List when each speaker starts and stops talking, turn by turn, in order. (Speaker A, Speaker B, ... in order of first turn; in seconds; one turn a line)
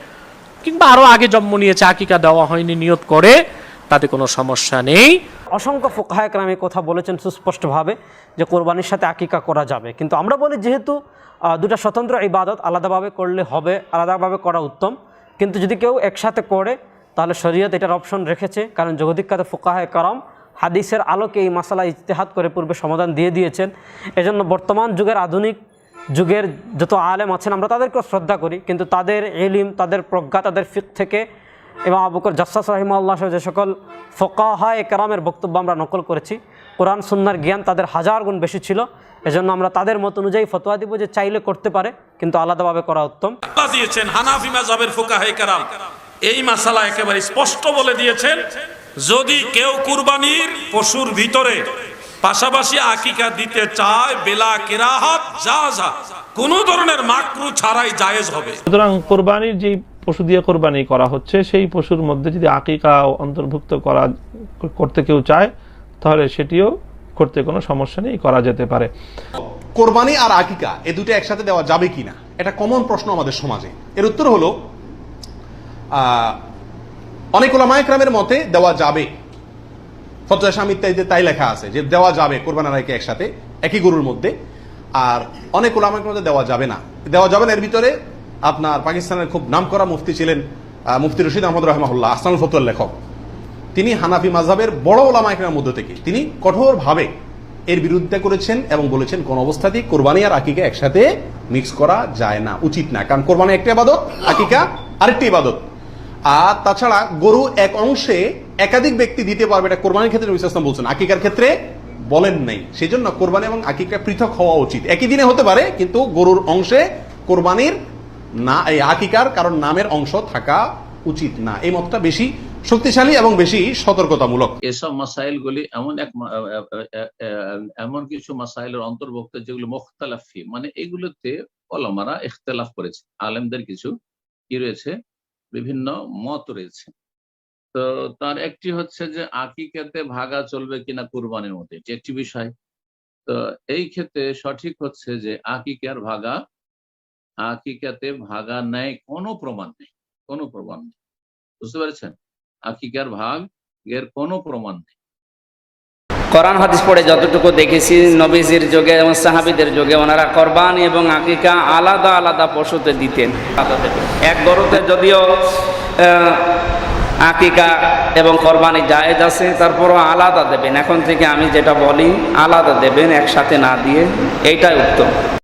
Speaker A: 0.6-3.3
Speaker A: 3.9-5.1
Speaker B: 5.6-11.0
Speaker B: 11.5-25.6
Speaker B: 26.2-31.2
Speaker B: 31.9-43.4
Speaker C: 43.6-45.7
Speaker C: 46.3-48.4
Speaker C: 49.0-51.6
Speaker C: 52.2-58.6
Speaker D: 58.7-68.9
Speaker E: 69.8-74.5
Speaker E: 76.0-76.4
Speaker E: 77.3-79.1
Speaker E: 80.3-84.3
Speaker E: 85.0-87.9
Speaker E: 88.5-92.9
Speaker E: 93.8-97.1
Speaker E: 97.7-105.6
Speaker E: 106.3-111.5
Speaker E: 112.1-117.8
Speaker E: 118.4-124.5
Speaker F: 124.7-126.2
Speaker F: 126.7-127.1
Speaker F: 127.8-133.9
Speaker F: 134.5-134.9
Speaker F: 135.5-136.9
Speaker F: 137.8-142.5
Speaker F: 143.3-146.4
Speaker F: 147.4-151.0
Speaker F: 151.6-152.2
Speaker F: 152.7-155.0
Speaker G: 156.3-165.2
Speaker G: 167.3-175.1